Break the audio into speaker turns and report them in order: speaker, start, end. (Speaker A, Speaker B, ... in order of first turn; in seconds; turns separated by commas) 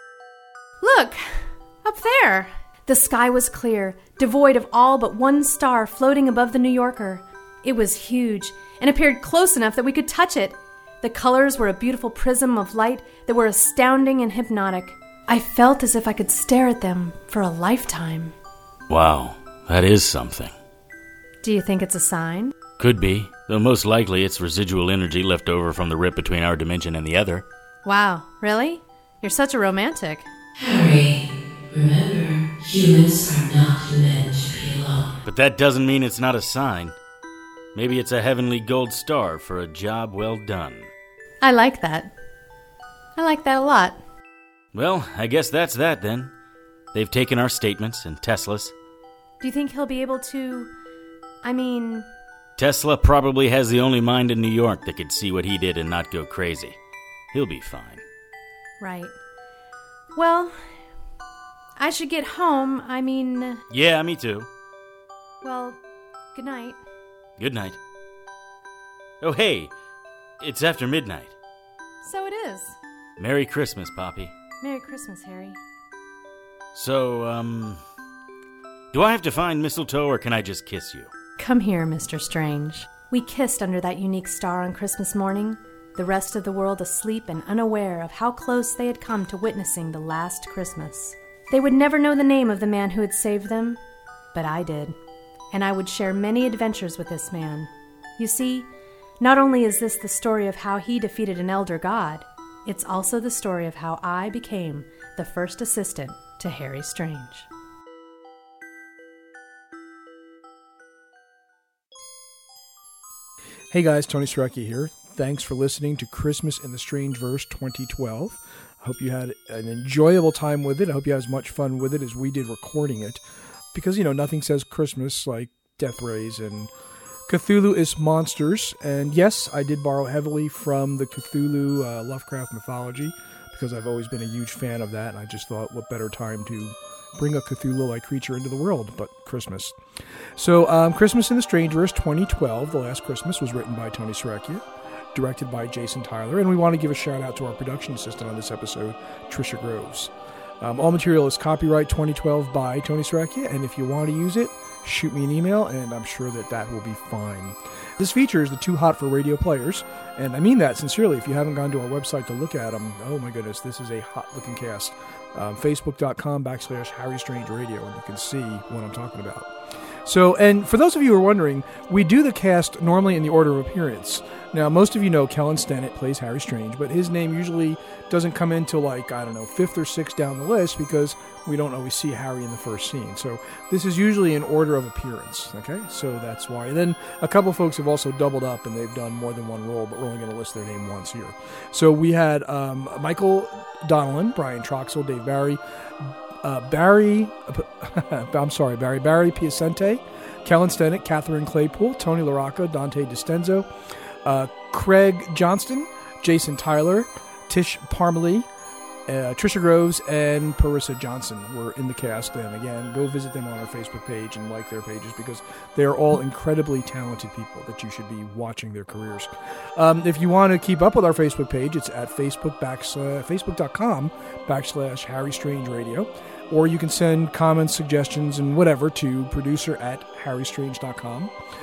Speaker A: 0.8-18.3, Speaker B: 18.9-20.5, Speaker A: 21.4-22.5, Speaker B: 22.8-27.4, Speaker A: 27.8-30.3, Speaker C: 30.6-35.1, Speaker B: 35.2-36.9, Speaker B: 37.7-40.9, Speaker A: 41.4-42.1, Speaker A: 43.1-44.0, Speaker B: 44.7-46.3, Speaker B: 46.9-48.7, Speaker A: 49.4-50.7, Speaker A: 51.4-52.1, Speaker B: 52.6-56.8, Speaker B: 57.3-58.0, Speaker A: 58.8-59.1, Speaker A: 60.1-60.6, Speaker A: 61.8-63.6, Speaker B: 63.7-64.5, Speaker A: 65.4-65.8, Speaker A: 66.3-66.8, Speaker B: 67.4-67.8, Speaker B: 69.2-69.7, Speaker B: 70.4-71.3, Speaker A: 72.0-72.8, Speaker B: 73.2-74.3, Speaker A: 74.6-75.6, Speaker B: 76.7-77.8, Speaker B: 78.9-81.1, Speaker A: 81.4-93.8, Speaker A: 94.3-94.9, Speaker A: 95.5-98.7, Speaker A: 99.2-107.5, Speaker D: 113.7-123.2, Speaker D: 123.7-126.7, Speaker D: 127.3-139.8, Speaker D: 140.4-169.5, Speaker D: 170.0-195.6, Speaker D: 196.4-203.7, Speaker D: 204.2-208.5, Speaker D: 209.1-231.3